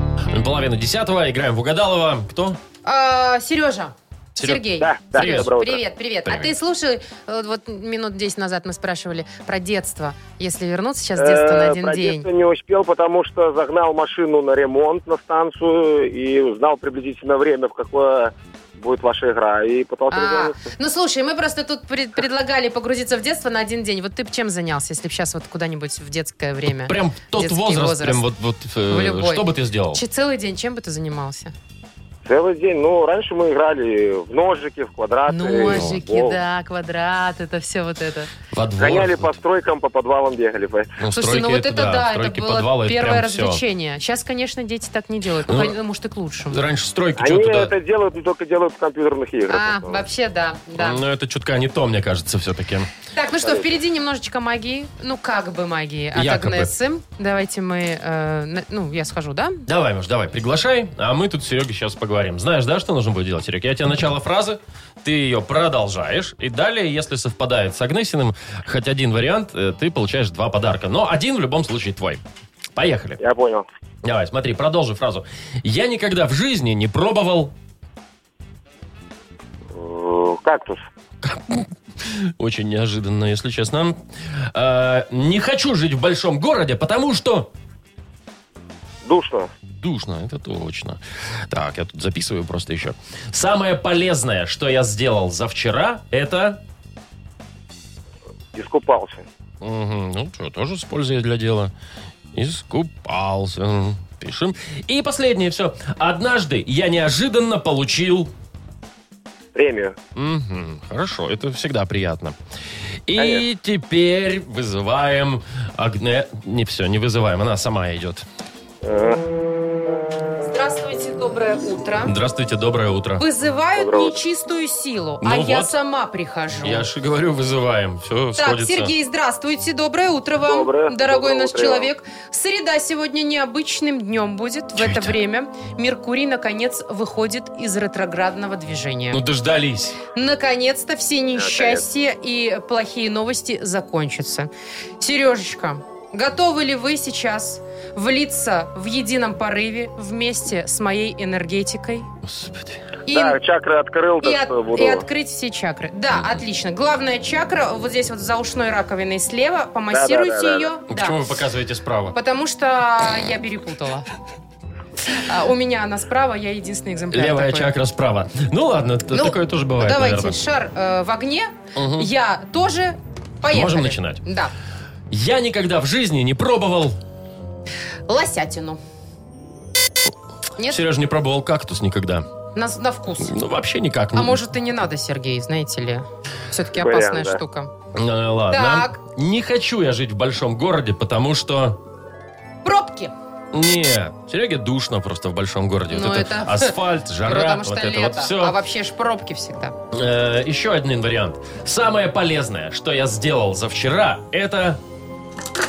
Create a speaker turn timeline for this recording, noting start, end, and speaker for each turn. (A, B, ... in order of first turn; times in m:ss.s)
0:00.3-0:02.6 A
0:02.8-0:12.3 B
0:04.4-0:05.5 A
0:04.8-0:05.8 C
0:06.3-0:06.5 A
0:11.2-0:20.6 C
0:20.1-0:28.2 B
0:26.9-0:30.0 A
0:28.9-0:31.5 B
0:32.2-0:36.4 C
0:35.3-0:38.3 B
0:35.7-0:36.0 A
0:38.5-0:39.3 A
0:38.8-0:41.0 C
0:41.0-0:43.6 A
0:41.1-0:46.6 B
0:45.5-0:45.8 A
0:46.5-0:47.7 A
0:47.2-0:50.0 C
0:49.5-0:51.0 B
0:50.8-0:52.9 A
0:53.1-0:59.6 B
0:53.4-0:53.7 C
0:56.2-0:56.7 A
0:59.7-1:12.2 A
1:12.8-1:13.2 A
1:13.2-1:13.7 C
1:14.0-1:17.5 A
1:19.7-1:20.8 C
1:21.2-1:24.0 A
1:24.5-1:27.5 A
1:29.0-1:29.5 C
1:29.7-1:36.6 A
1:38.5-1:39.2 C
1:39.6-1:41.7 A
1:42.3-1:48.3 A
1:49.5-1:50.0 C
1:50.2-1:52.4 A
1:53.1-1:58.2 A
1:53.2-1:53.4 C
1:58.8-1:59.2 C
2:00.4-2:02.1 B
2:02.0-2:03.2 A
2:03.2-2:06.8 B
2:03.8-2:04.2 C
2:05.2-2:05.7 A
2:06.6-2:08.9 A
2:08.4-2:19.2 B
2:10.5-2:11.9 C
2:14.8-2:15.1 A
2:19.1-2:20.0 A
2:20.1-2:32.1 B
2:21.4-2:21.8 C
2:32.2-2:32.8 A
2:33.1-2:33.4 B
2:33.1-2:35.0 C
2:34.2-2:41.2 B
2:39.9-2:40.7 C
2:40.9-2:42.2 A
2:42.1-2:44.1 B
2:45.1-2:47.7 B
2:47.1-2:50.4 A
2:49.1-2:54.5 B
2:51.8-2:52.1 A
2:53.5-2:54.2 A
2:55.1-2:57.0 A
2:58.1-2:58.8 B
3:00.7-3:02.3 A
3:02.6-3:03.4 B
3:03.2-3:04.4 A
3:04.1-3:07.7 B
3:06.8-3:07.4 C
3:07.9-3:11.8 A
3:08.5-3:09.0 B
3:12.6-3:13.1 B
3:13.5-3:18.6 A
3:15.9-3:19.8 B
3:19.9-3:24.8 A